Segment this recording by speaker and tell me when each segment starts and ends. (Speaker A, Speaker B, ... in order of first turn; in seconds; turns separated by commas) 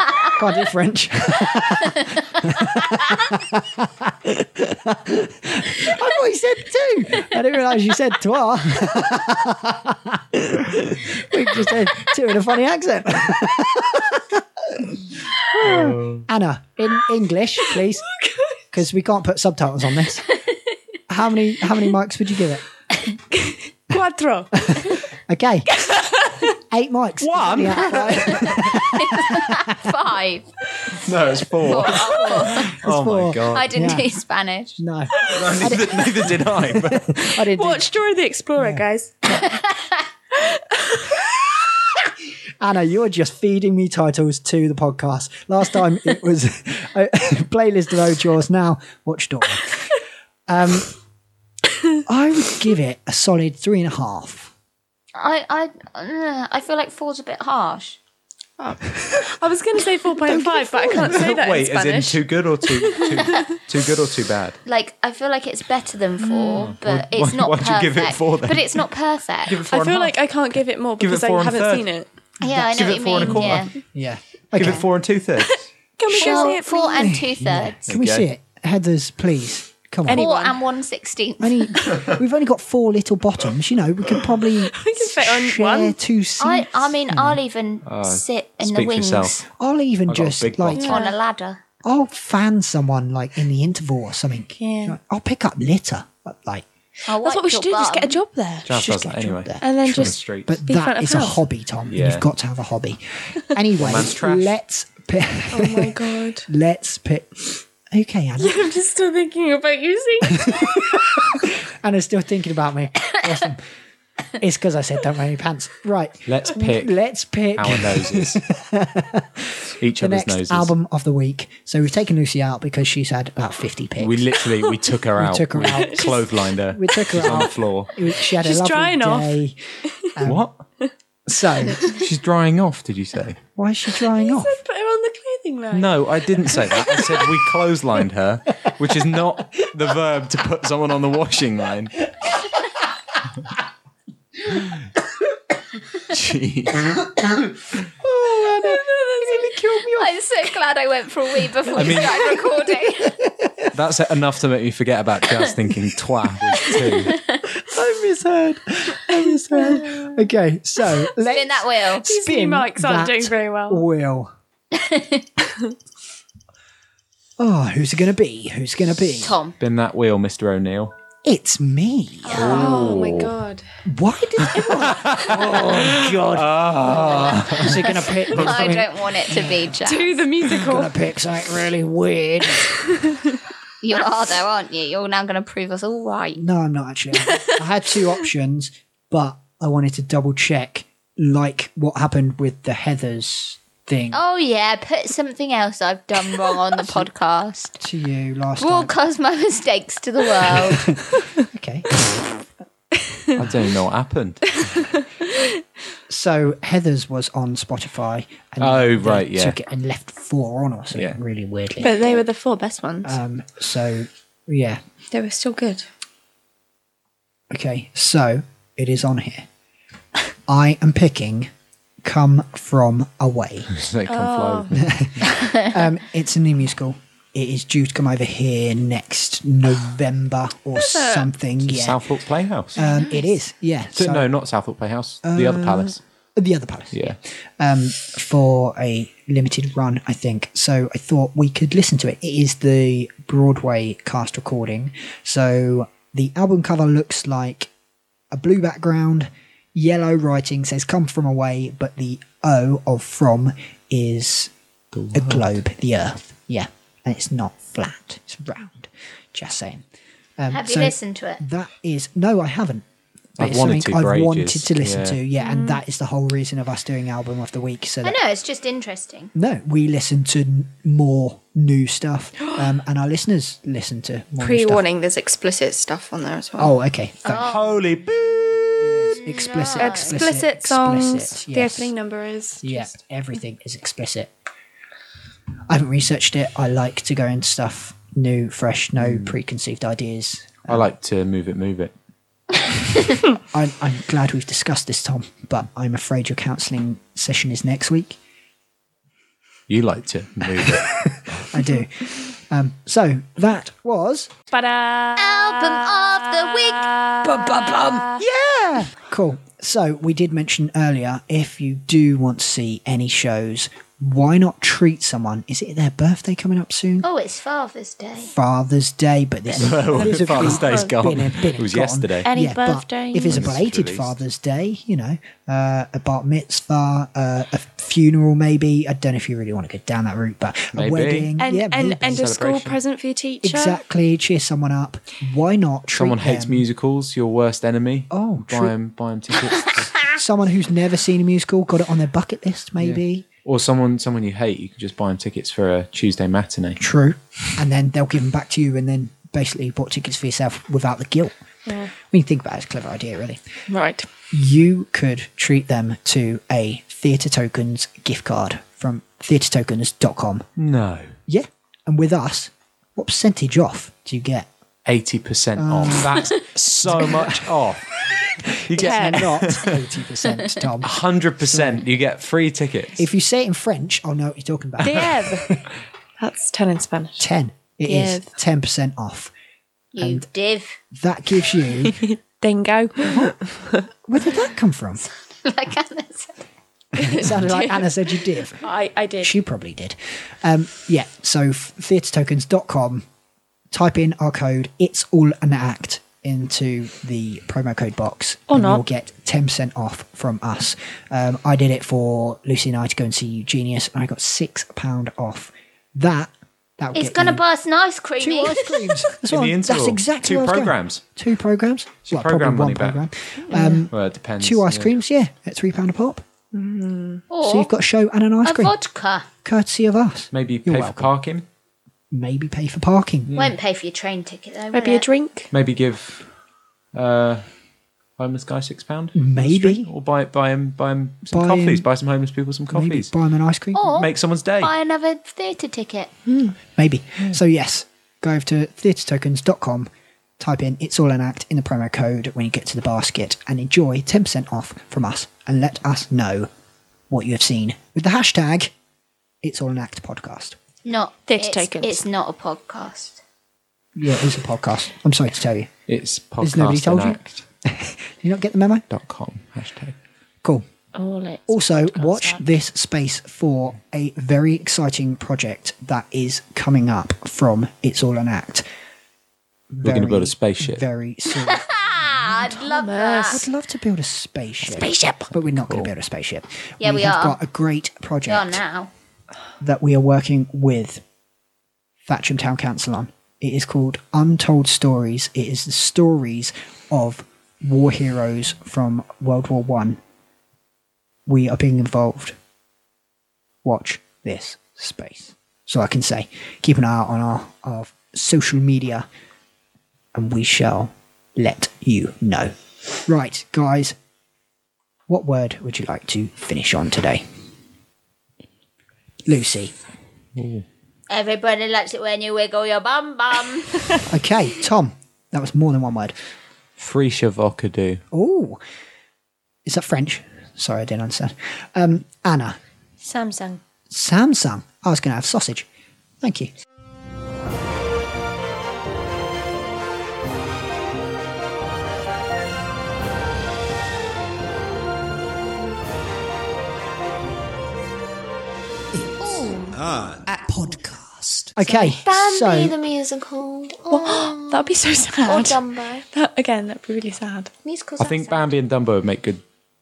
Speaker A: 0.2-18.1, Speaker B: 15.6-16.2, Speaker C: 17.7-18.5, Speaker A: 18.7-20.3, Speaker A: 21.1-22.6, Speaker C: 23.1-25.1, Speaker A: 24.6-25.8, Speaker C: 25.7-26.6, Speaker A: 26.7-29.9, Speaker B: 27.2-28.8, Speaker D: 28.7-30.5, Speaker B: 30.9-34.0, Speaker D: 31.6-32.8, Speaker A: 32.4-34.1, Speaker D: 33.5-34.8, Speaker A: 34.8-37.9, Speaker B: 35.3-37.2, Speaker C: 37.2-39.6, Speaker A: 38.5-38.8, Speaker C: 40.3-41.4, Speaker A: 42.6-49.9, Speaker A: 50.5-50.9, Speaker A: 52.0-54.5, Speaker D: 55.1-58.0, Speaker C: 58.6-63.6, Speaker A: 60.2-61.3, Speaker B: 61.0-64.6, Speaker D: 64.7-69.6, Speaker C: 66.2-66.7, Speaker B: 66.5-68.8, Speaker B: 69.5-70.2, Speaker C: 69.7-72.0, Speaker B: 71.0-71.9, Speaker D: 72.4-73.7, Speaker A: 72.4-74.8, Speaker B: 72.7-73.7, Speaker B: 74.5-75.7, Speaker C: 75.4-77.2, Speaker A: 76.1-80.2, Speaker D: 76.1-77.9, Speaker B: 77.4-78.3, Speaker C: 80.0-80.6, Speaker D: 80.1-81.9, Speaker A: 81.4-87.4, Speaker C: 84.8-86.0, Speaker D: 86.4-89.4, Speaker B: 87.8-89.4, Speaker A: 89.5-90.9, Speaker B: 90.1-91.0, Speaker D: 90.7-91.6, Speaker C: 90.8-91.2, Speaker A: 91.8-96.7, Speaker C: 94.5-95.0, Speaker D: 97.0-98.2, Speaker C: 97.2-98.7, Speaker B: 98.6-100.5, Speaker A: 98.7-108.7, Speaker C: 99.6-101.4, Speaker B: 101.9-102.2, Speaker B: 103.8-104.5, Speaker C: 105.5-106.5, Speaker C: 108.4-111.4, Speaker A: 110.2-113.7, Speaker A: 114.3-124.2, Speaker B: 116.2-116.9, Speaker B: 117.5-118.4, Speaker B: 119.8-120.7, Speaker B: 124.0-127.9, Speaker A: 125.2-126.1, Speaker C: 125.7-127.3, Speaker A: 126.7-129.6, Speaker C: 128.1-129.4, Speaker A: 130.1-130.4, Speaker B: 130.2-130.6, Speaker A: 131.3-131.9, Speaker C: 131.6-132.0, Speaker B: 131.7-133.4, Speaker A: 133.6-134.6, Speaker C: 134.0-137.2, Speaker B: 135.7-142.1, Speaker B: 146.0-146.9, Speaker A: 147.9-150.1, Speaker C: 148.4-149.5, Speaker D: 149.9-153.2, Speaker B: 151.7-152.1, Speaker A: 151.8-153.7, Speaker B: 153.7-157.2, Speaker D: 156.9-157.4, Speaker A: 157.4-164.3, Speaker D: 161.2-162.1, Speaker C: 162.0-163.8, Speaker D: 164.7-165.2, Speaker A: 167.4-169.4, Speaker D: 169.2-169.6, Speaker B: 169.6-170.9, Speaker A: 171.2-172.9, Speaker C: 172.2-173.6, Speaker B: 172.3-173.3, Speaker A: 173.8-179.8, Speaker B: 174.5-177.8, Speaker D: 176.8-180.2, Speaker B: 178.4-178.8, Speaker C: 179.8-181.0, Speaker A: 180.5-182.8, Speaker C: 182.6-183.2, Speaker D: 183.8-186.4, Speaker A: 186.3-194.2, Speaker D: 194.1-197.8, Speaker A: 196.8-197.1, Speaker A: 197.8-198.9, Speaker D: 198.6-200.9, Speaker A: 200.5-202.0, Speaker C: 203.1-203.4, Speaker B: 203.3-204.7, Speaker C: 204.6-205.6, Speaker A: 206.1-212.1, Speaker B: 208.6-209.6, Speaker C: 211.8-213.2, Speaker A: 213.0-214.8, Speaker C: 215.1-215.9, Speaker A: 217.5-219.5, Speaker A: 220.5-221.5, Speaker A: 222.0-223.8, Speaker B: 223.7-225.2, Speaker C: 224.1-224.7, Speaker A: 224.7-232.0, Speaker C: 230.7-231.3, Speaker B: 231.6-232.8, Speaker A: 232.7-234.2, Speaker B: 233.9-236.0, Speaker A: 235.2-247.7, Speaker B: 236.9-237.2, Speaker A: 248.3-254.5, Speaker B: 254.9-255.6, Speaker A: 255.1-259.8, Speaker A: 260.4-262.8, Speaker D: 260.5-261.4, Speaker B: 263.4-265.2, Speaker A: 263.4-268.2, Speaker C: 265.4-265.8, Speaker D: 268.0-269.3, Speaker A: 269.3-274.8, Speaker C: 274.4-276.7, Speaker A: 276.6-277.6, Speaker D: 277.2-277.6, Speaker B: 277.4-279.2, Speaker A: 278.8-281.9, Speaker D: 279.3-280.2, Speaker C: 279.8-282.9, Speaker A: 282.6-284.3, Speaker A: 285.7-290.9, Speaker B: 289.0-289.3, Speaker B: 290.7-291.9, Speaker A: 293.5-298.2, Speaker B: 299.7-301.5, Speaker A: 300.6-304.3, Speaker C: 304.5-305.8, Speaker D: 305.1-308.0, Speaker C: 307.2-308.2, Speaker A: 308.0-317.1, Speaker D: 317.0-318.3, Speaker A: 318.2-332.2, Speaker B: 319.5-322.3, Speaker C: 320.0-320.9, Speaker C: 322.2-323.5, Speaker B: 323.3-324.1, Speaker B: 330.7-331.3, Speaker C: 331.4-333.8, Speaker B: 332.0-332.8, Speaker A: 333.4-336.6, Speaker B: 335.9-340.1, Speaker A: 338.1-338.7, Speaker A: 340.1-343.2, Speaker B: 342.8-346.8, Speaker A: 346.8-351.3, Speaker C: 351.7-351.9, Speaker A: 351.9-353.4, Speaker C: 353.7-354.1, Speaker A: 354.3-360.5, Speaker B: 360.6-361.1, Speaker A: 361.3-364.5, Speaker B: 364.9-369.9, Speaker A: 365.6-367.6, Speaker A: 368.4-370.9, Speaker C: 368.8-369.4, Speaker B: 370.8-373.0, Speaker A: 371.5-371.8, Speaker A: 373.0-375.6, Speaker C: 374.8-375.6, Speaker C: 376.2-377.2, Speaker A: 377.2-379.3, Speaker C: 377.8-378.3, Speaker D: 379.9-380.8, Speaker A: 380.0-380.2, Speaker A: 380.9-382.0, Speaker C: 381.8-383.8, Speaker A: 383.0-385.0, Speaker D: 385.4-386.5, Speaker A: 386.9-388.6, Speaker C: 386.9-389.3, Speaker A: 389.2-393.0, Speaker A: 393.7-407.4, Speaker C: 398.5-398.8, Speaker D: 406.9-409.0, Speaker A: 408.2-416.2, Speaker B: 409.3-411.0, Speaker B: 412.0-413.0, Speaker C: 413.5-413.8, Speaker B: 413.6-414.9, Speaker C: 416.5-417.2, Speaker D: 417.3-417.7, Speaker A: 417.4-418.7, Speaker D: 418.4-419.3, Speaker A: 419.4-421.1, Speaker B: 420.3-421.4, Speaker A: 422.1-423.3, Speaker B: 423.3-423.5, Speaker D: 423.3-425.1, Speaker C: 424.7-425.5, Speaker B: 425.5-426.2, Speaker B: 426.9-427.4, Speaker B: 428.2-433.1, Speaker A: 429.1-429.9, Speaker A: 431.3-431.9, Speaker A: 432.7-434.0, Speaker D: 433.7-436.1, Speaker B: 433.9-434.7, Speaker A: 436.4-446.5, Speaker A: 447.1-448.7, Speaker A: 449.4-450.6, Speaker D: 450.8-453.2, Speaker C: 451.3-452.0, Speaker A: 453.9-455.7, Speaker B: 455.9-457.4, Speaker A: 456.4-458.8, Speaker B: 458.9-459.9, Speaker C: 460.9-462.4, Speaker A: 461.5-468.6, Speaker A: 469.7-471.7, Speaker B: 469.8-470.8, Speaker D: 471.5-473.4, Speaker C: 472.3-473.4, Speaker A: 473.3-478.6, Speaker D: 476.8-477.4, Speaker D: 478.2-478.9, Speaker A: 479.6-481.0, Speaker A: 482.1-490.0, Speaker A: 491.2-492.4, Speaker A: 493.6-499.1, Speaker A: 500.1-502.5, Speaker A: 503.1-504.0, Speaker A: 505.1-507.2, Speaker A: 509.2-509.7, Speaker B: 510.4-510.6, Speaker D: 511.1-514.0, Speaker A: 514.1-516.1, Speaker B: 516.8-518.0, Speaker A: 518.1-518.6, Speaker A: 519.6-522.6, Speaker C: 523.0-523.6, Speaker A: 523.9-525.7, Speaker A: 526.2-526.5, Speaker D: 539.2-539.8, Speaker A: 540.3-542.8, Speaker D: 541.6-544.7, Speaker C: 543.9-547.5, Speaker D: 545.2-546.0, Speaker D: 547.6-548.5, Speaker B: 548.0-549.4